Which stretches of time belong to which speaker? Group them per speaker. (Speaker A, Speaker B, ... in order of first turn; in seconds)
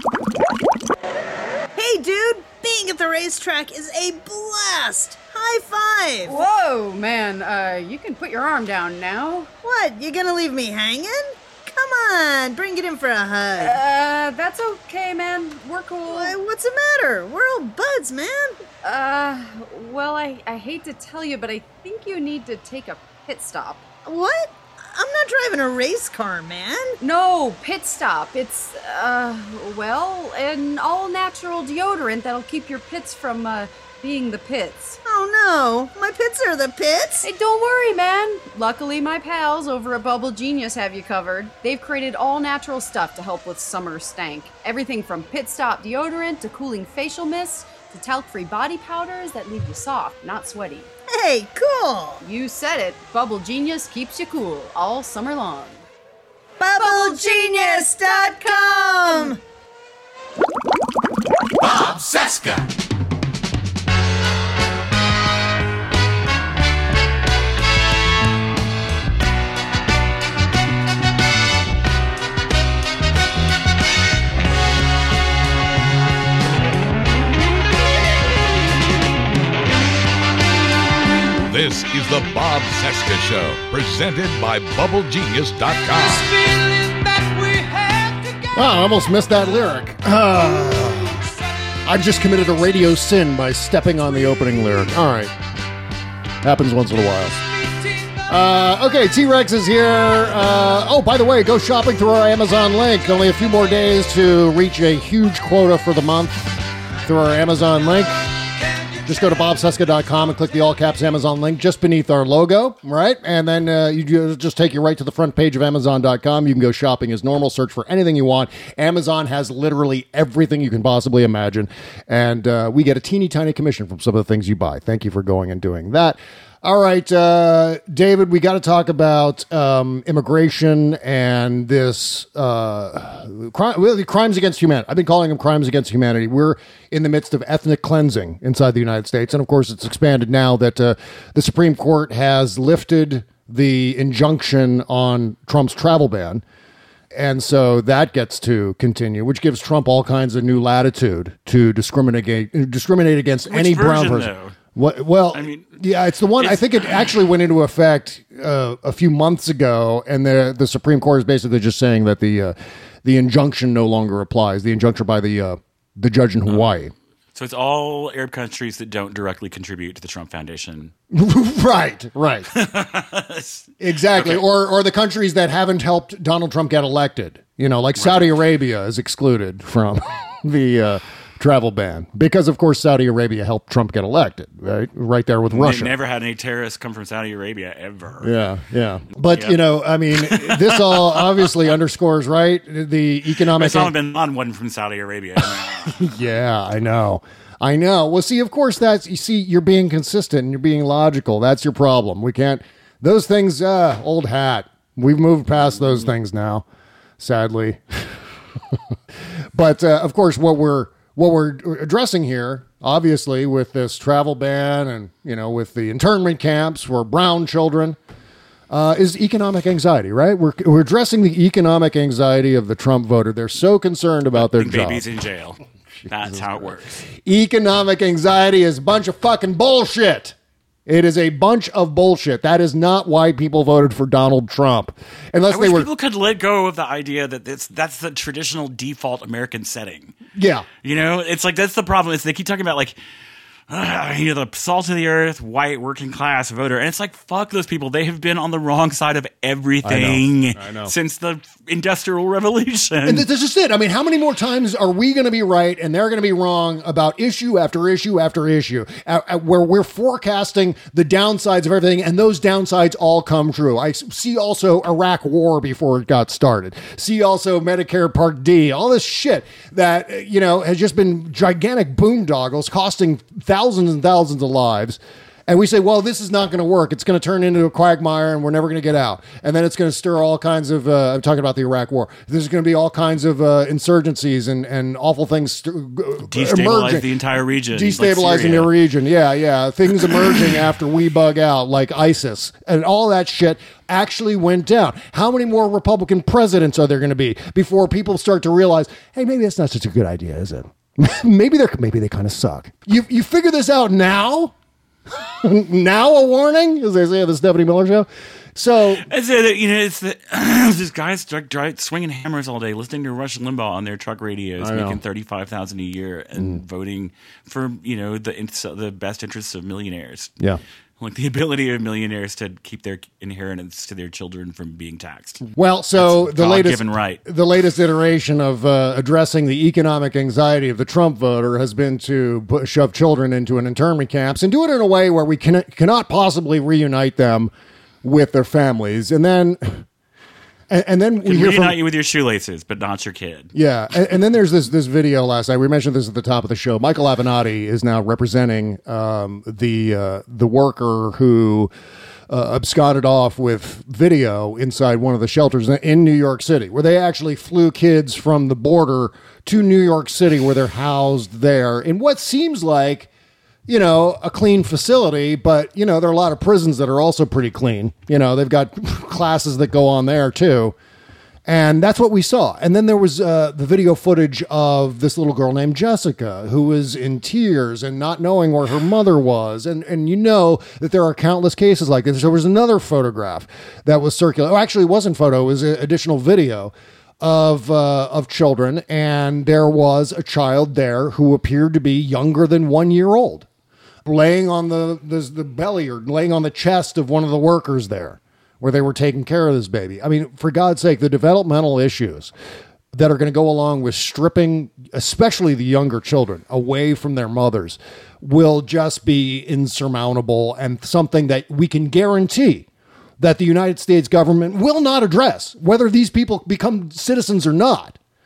Speaker A: 1.8-6.4, 9.6-13.8, 16.1-18.6, 24.0-26.9, 35.0-37.2, 51.1-52.2, 56.6-59.4
Speaker B: 6.3-9.5, 13.6-16.4, 18.8-23.8, 27.0-35.0, 37.2-50.9, 52.2-55.9, 56.8-57.4, 61.8-62.3
Speaker C: 81.5-86.3
Speaker D: 88.5-91.2, 91.8-95.3, 96.4-97.4, 98.3-108.1, 109.0-146.4, 147.1-166.9, 171.1-172.5, 173.8-185.9, 188.2-193.9, 195.8-206.6, 207.2-208.8, 209.5-218.0, 218.7-225.0, 226.1-230.3, 230.8-235.9, 240.3-240.7, 249.8-250.9, 253.0-287.0, 287.7-304.5, 305.1-309.1, 314.6-315.0, 316.4-316.6, 325.5-337.5, 338.0-339.9, 340.7-341.8, 343.5-351.7, 352.3-363.1, 363.7-370.8, 371.4-393.5, 394.0-402.3, 402.9-412.6, 413.2-418.0
Speaker E: 153.5-154.6, 155.3-155.8, 156.4-157.1, 167.3-170.9, 172.5-174.4, 177.9-178.3, 185.5-188.3, 189.1-189.6, 190.1-191.6, 193.5-196.1, 224.3-227.1, 235.5-240.1, 240.8-243.0, 243.7-253.3, 286.2-288.7, 309.0-320.3, 321.0-325.4, 325.9-327.2, 341.2-343.5